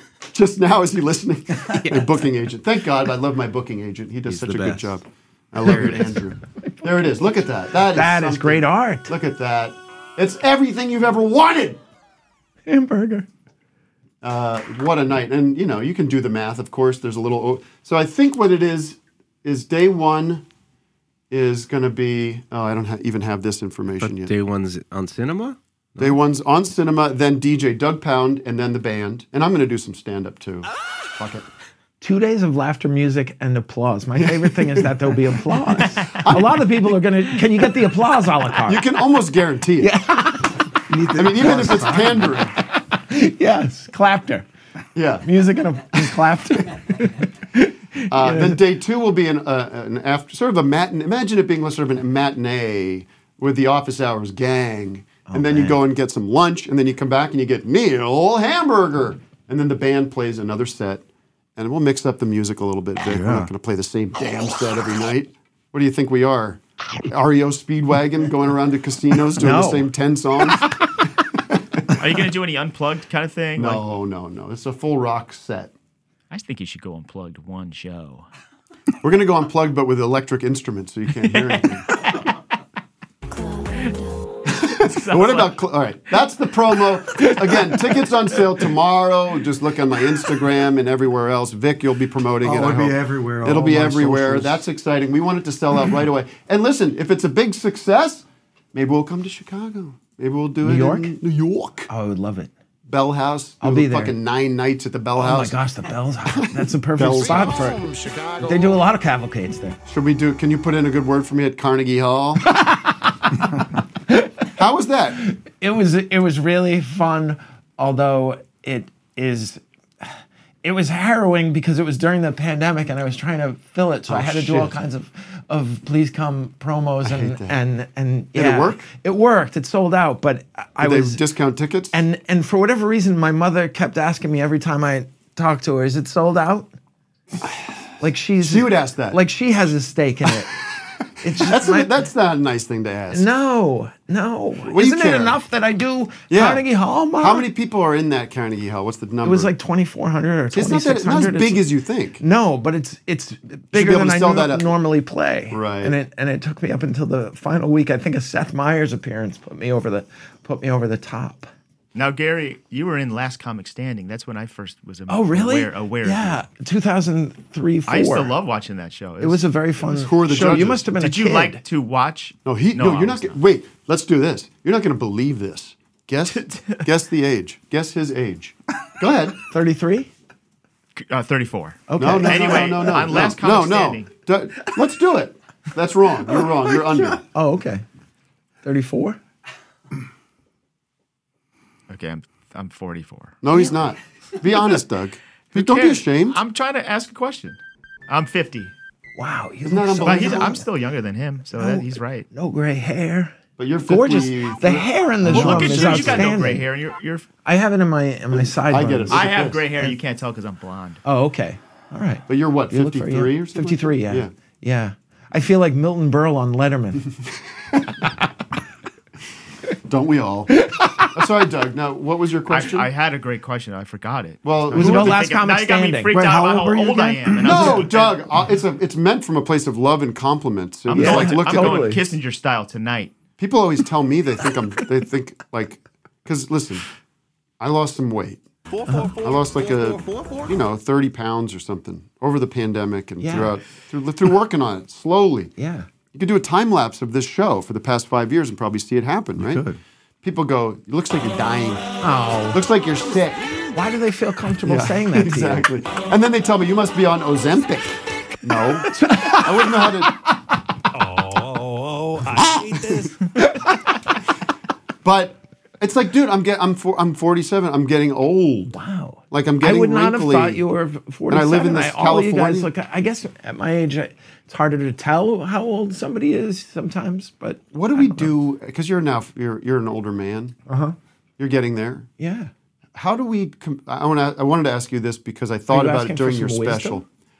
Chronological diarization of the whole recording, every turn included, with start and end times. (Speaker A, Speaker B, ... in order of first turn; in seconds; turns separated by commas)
Speaker A: 0.3-11.8, Speaker B: 1.7-2.2, Speaker B: 4.2-5.0, Speaker B: 5.7-6.0, Speaker C: 7.9-9.1, Speaker C: 12.7-13.3, Speaker A: 14.2-20.4, Speaker A: 21.3-24.3, Speaker B: 24.0-26.2, Speaker A: 26.0-31.4, Speaker C: 32.0-38.8, Speaker A: 34.2-35.1, Speaker A: 36.0-36.9, Speaker A: 38.6-39.9, Speaker C: 39.8-40.6, Speaker D: 40.9-42.4, Speaker A: 41.1-42.6, Speaker C: 43.0-44.5, Speaker A: 44.9-45.3, Speaker C: 45.2-48.6, Speaker A: 48.1-61.0, Speaker C: 55.3-55.8, Speaker A: 61.5-70.8, Speaker D: 63.0-63.5, Speaker C: 69.4-69.9, Speaker E: 72.0-73.8, Speaker A: 73.5-75.7, Speaker E: 76.3-78.3, Speaker A: 79.0-81.9, Speaker A: 84.5-101.9, Speaker E: 84.8-85.6, Speaker D: 92.4-94.6, Speaker C: 100.6-101.2, Speaker C: 101.9-102.5, Speaker A: 102.9-105.6, Speaker C: 103.6-104.2, Speaker C: 105.2-107.9, Speaker A: 106.3-108.2, Speaker C: 108.4-109.8, Speaker A: 109.8-112.5, Speaker A: 114.5-115.2, Speaker C: 115.2-131.2, Speaker A: 124.1-124.8, Speaker A: 127.0-127.6, Speaker A: 128.3-128.8, Speaker A: 130.8-131.9, Speaker C: 131.9-136.7, Speaker C: 138.0-140.6, Speaker A: 138.4-139.2, Speaker C: 141.2-141.9, Speaker A: 141.4-143.3, Speaker C: 143.1-147.5, Speaker A: 144.6-145.4, Speaker A: 146.3-146.7, Speaker A: 147.2-149.5, Speaker C: 149.2-151.7, Speaker A: 150.5-152.2, Speaker C: 152.2-161.5, Speaker A: 153.7-154.8, Speaker A: 155.5-155.9, Speaker E: 161.9-166.4, Speaker C: 165.1-168.3, Speaker E: 167.9-169.5, Speaker C: 169.2-171.6, Speaker A: 169.9-170.8, Speaker E: 170.8-173.4, Speaker A: 172.4-179.3, Speaker E: 176.4-176.8, Speaker C: 179.5-180.1, Speaker E: 180.9-184.1, Speaker C: 181.9-183.0, Speaker A: 182.0-187.2, Speaker C: 187.3-187.8, Speaker C: 188.6-189.2, Speaker E: 191.9-193.4, Speaker A: 193.4-196.4, Speaker E: 195.5-198.7, Speaker C: 199.2-200.6, Speaker A: 199.6-200.6, Speaker E: 200.0-202.3, Speaker C: 201.6-206.7, Speaker A: 203.6-206.5, Speaker E: 205.3-207.3, Speaker C: 207.4-210.0, Speaker A: 208.3-209.6, Speaker E: 209.1-211.0, Speaker C: 211.0-217.1, Speaker A: 212.3-214.3, Speaker A: 219.8-222.9, Speaker C: 220.5-221.1, Speaker E: 222.5-228.2, Speaker A: 224.4-225.3, Speaker C: 224.7-227.9, Speaker A: 227.4-231.8, Speaker E: 230.9-233.1, Speaker C: 230.9-232.1, Speaker A: 233.4-236.8, Speaker A: 237.6-238.4, Speaker C: 238.8-239.2, Speaker A: 239.1-245.5, Speaker C: 243.2-243.6, Speaker C: 245.6-245.9, Speaker A: 246.1-249.6, Speaker D: 249.4-249.8, Speaker A: 250.2-251.8, Speaker C: 252.0-252.6, Speaker A: 252.5-253.4, Speaker C: 253.7-255.7, Speaker A: 254.7-260.1, Speaker C: 258.9-260.0, Speaker F: 260.9-263.0, Speaker A: 262.4-262.7, Speaker C: 262.7-263.7, Speaker A: 265.0-268.8, Speaker C: 268.7-278.3, Speaker A: 269.3-270.6, Speaker A: 271.3-272.7, Speaker A: 277.7-280.6, Speaker C: 280.7-280.9, Speaker A: 281.4-282.1, Speaker C: 282.2-282.5, Speaker A: 282.9-287.1, Speaker C: 285.7-287.0